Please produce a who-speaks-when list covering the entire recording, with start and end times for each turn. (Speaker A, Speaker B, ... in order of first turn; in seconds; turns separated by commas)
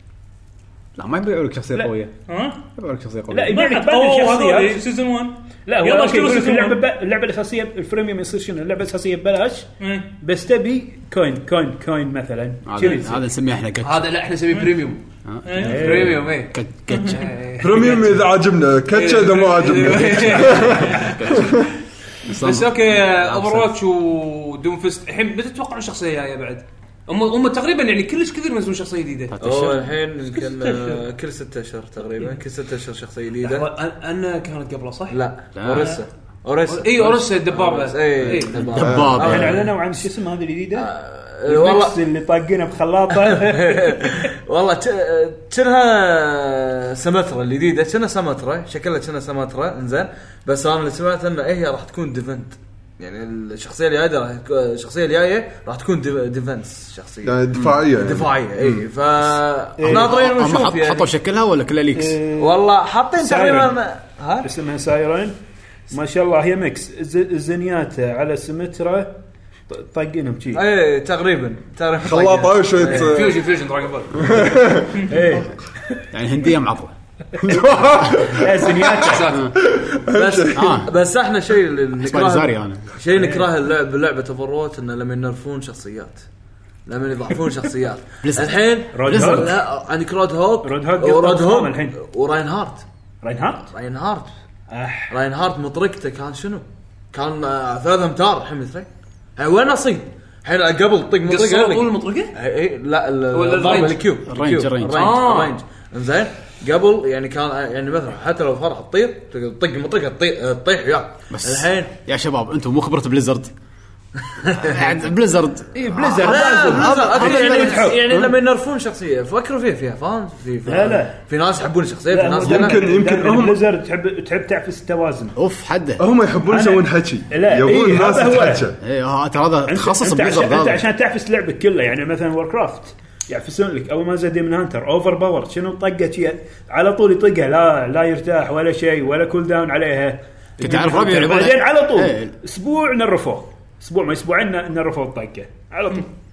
Speaker A: 0.9-2.1, Speaker B: 2.3-2.6, Speaker A: 2.6-3.5, Speaker C: 3.3-4.8, Speaker B: 3.5-6.8, Speaker C: 5.7-13.2, Speaker B: 9.8-10.1, Speaker A: 12.7-14.1, Speaker D: 13.8-15.0, Speaker A: 15.2-17.3, Speaker B: 15.4-15.9, Speaker D: 15.6-18.2, Speaker C: 15.6-16.1, Speaker E: 17.6-21.6, Speaker D: 18.9-21.4, Speaker A: 20.3-21.6, Speaker A: 22.2-23.7, Speaker D: 22.2-29.3, Speaker A: 29.3-29.9, Speaker F: 29.4-33.7, Speaker B: 30.3-31.0, Speaker D: 33.4-35.2, Speaker F: 35.1-39.7, Speaker A: 35.5-36.0, Speaker D: 36.7-38.7, Speaker A: 38.6-39.7, Speaker E: 38.8-39.2, Speaker C: 39.2-40.9, Speaker F: 40.8-42.0, Speaker C: 41.4-44.3, Speaker F: 43.1-61.1, Speaker E: 57.2-58.3, Speaker C: 59.8-60.1, Speaker A: 59.8-62.2, Speaker C: 61.9-62.6, Speaker F: 62.4-64.5, Speaker C: 63.2-63.8, Speaker C: 64.4-65.3, Speaker C: 65.9-69.2, Speaker C: 69.7-70.7, Speaker F: 70.5-73.2, Speaker E: 72.0-73.5, Speaker D: 72.8-74.4, Speaker E: 74.1-75.1, Speaker C: 75.1-76.0, Speaker A: 76.1-76.9, Speaker E: 77.4-80.9, Speaker C: 78.3-79.2, Speaker D: 79.0-79.5, Speaker F: 80.1-86.2, Speaker A: 80.5-80.9, Speaker A: 82.0-82.9, Speaker C: 83.2-83.4, Speaker F: 86.8-92.8, Speaker A: 88.2-89.6, Speaker C: 88.9-89.5, Speaker C: 90.6-92.0, Speaker C: 93.2-93.7, Speaker F: 93.7-94.3, Speaker C: 94.7-95.1, Speaker F: 95.1-111.9, Speaker D: 101.2-102.3, Speaker D: 103.3-104.1, Speaker A: 104.3-105.2, Speaker D: 104.9-105.6, Speaker A: 111.3-113.5, Speaker F: 114.4-115.1, Speaker A: 114.5-118.3, Speaker C: 115.7-118.0, Speaker F: 116.2-122.8, Speaker C: 120.7-121.2, Speaker C: 122.1-125.3, Speaker E: 122.4-123.6, Speaker A: 125.3-126.0, Speaker E: 126.0-128.8, Speaker C: 126.5-128.7, Speaker A: 128.8-130.8, Speaker C: 129.7-146.1, Speaker A: 140.6-142.3